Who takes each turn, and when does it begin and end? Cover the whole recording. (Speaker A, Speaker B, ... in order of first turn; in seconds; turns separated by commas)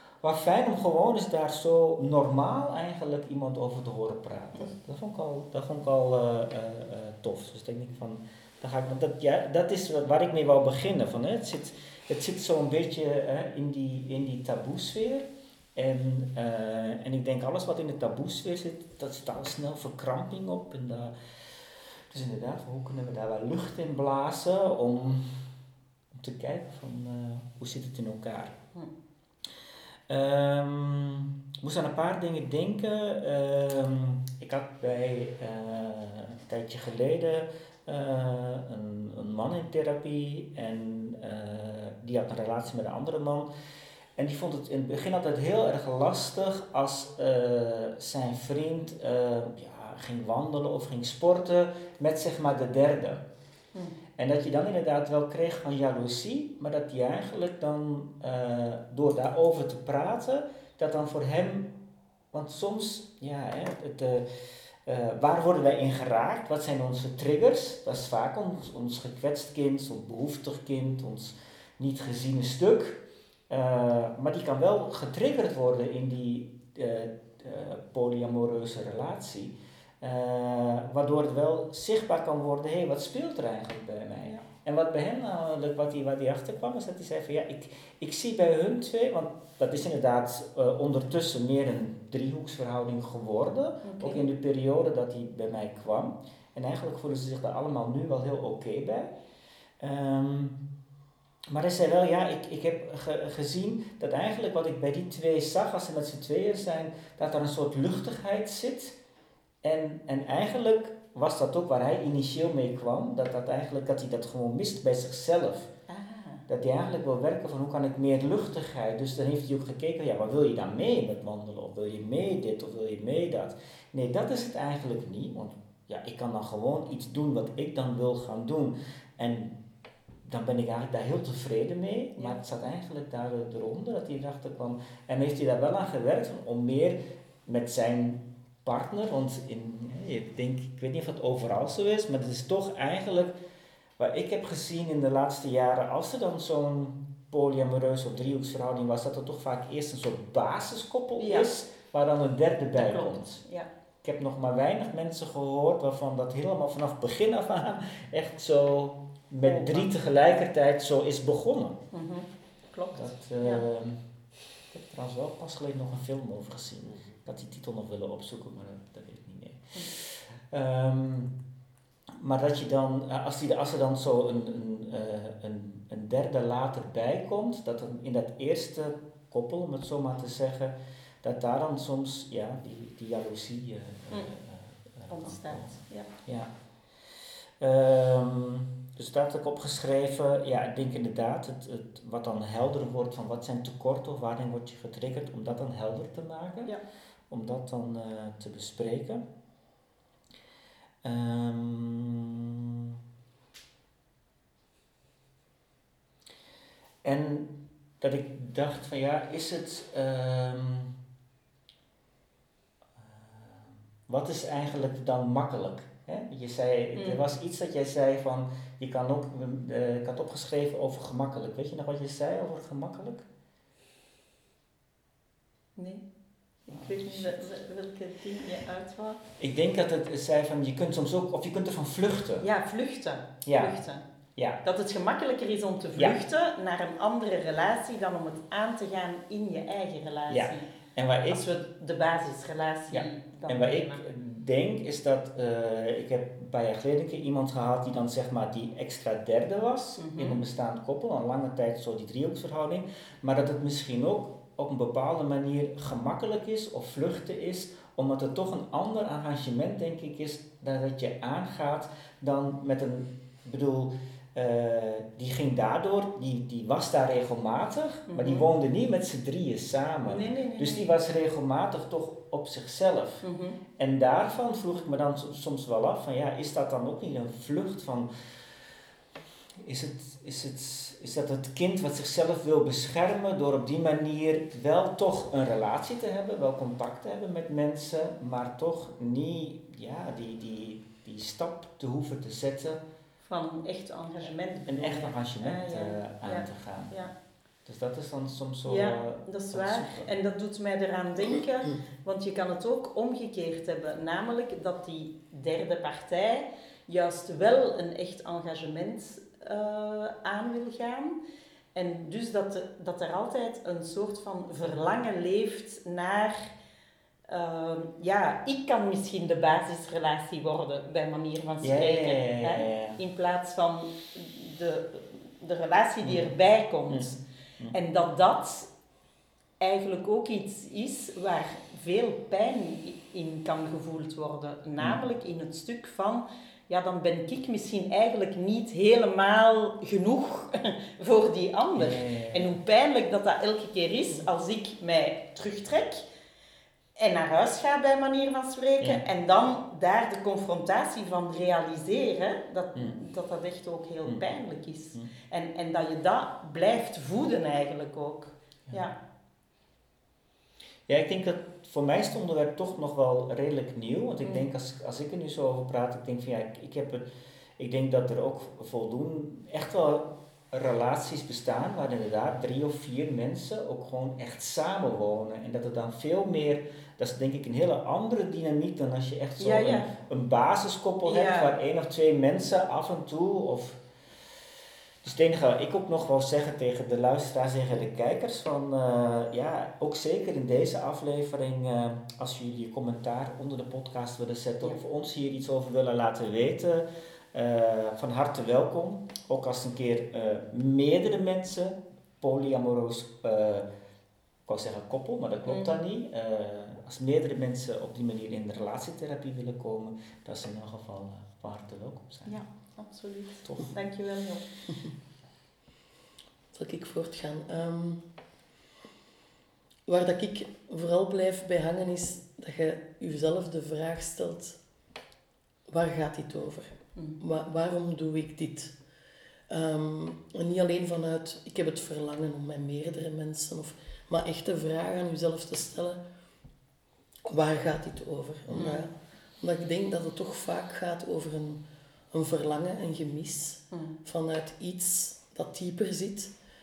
Speaker A: 0.2-21.1, Speaker A: 22.1-25.3, Speaker A: 26.1-28.6, Speaker A: 30.1-43.5, Speaker A: 44.2-53.2, Speaker A: 54.2-61.7, Speaker A: 62.3-64.2, Speaker A: 64.9-99.1, Speaker B: 93.8-94.2, Speaker A: 99.8-100.6, Speaker A: 101.5-109.0, Speaker A: 109.6-115.7, Speaker B: 115.9-116.4, Speaker A: 116.5-129.6, Speaker A: 130.2-143.4, Speaker A: 144.0-153.4, Speaker B: 151.2-151.5, Speaker B: 152.8-153.7, Speaker A: 154.0-161.8, Speaker B: 159.4-159.9, Speaker B: 161.9-163.6, Speaker A: 162.9-164.0, Speaker A: 164.7-171.4, Speaker A: 172.2-186.5, Speaker B: 185.1-186.1, Speaker A: 187.6-196.8, Speaker A: 197.3-199.2, Speaker A: 201.0-203.0, Speaker A: 207.0-211.0, Speaker A: 213.0-223.2, Speaker B: 217.0-217.2, Speaker B: 225.8-226.1, Speaker B: 226.7-229.2, Speaker A: 226.7-227.5, Speaker A: 229.4-232.5, Speaker B: 232.4-234.1, Speaker A: 233.4-233.8, Speaker B: 234.6-240.7, Speaker A: 240.3-241.5, Speaker B: 241.3-244.0, Speaker A: 242.9-273.2, Speaker B: 250.0-250.4, Speaker B: 268.1-268.5, Speaker B: 270.1-270.9, Speaker B: 273.2-273.6, Speaker A: 273.8-278.1, Speaker A: 279.6-292.8, Speaker B: 293.2-297.1, Speaker A: 294.6-297.0, Speaker A: 297.6-300.1, Speaker B: 298.6-311.2, Speaker B: 311.8-316.5, Speaker B: 317.3-327.2, Speaker A: 321.6-323.0, Speaker A: 326.0-326.3, Speaker A: 326.9-327.8, Speaker B: 327.7-328.7, Speaker B: 329.6-346.1, Speaker A: 341.8-342.5, Speaker B: 347.0-358.9, Speaker A: 360.9-367.1, Speaker A: 367.6-383.8, Speaker B: 379.4-379.9, Speaker B: 381.0-381.5, Speaker A: 385.0-403.7, Speaker A: 404.5-412.4, Speaker B: 405.5-405.8, Speaker B: 412.2-414.5, Speaker A: 413.4-413.8, Speaker C: 416.5-418.0, Speaker C: 419.9-424.6, Speaker C: 425.7-428.7, Speaker C: 429.5-436.0, Speaker C: 437.3-446.3, Speaker B: 438.5-438.9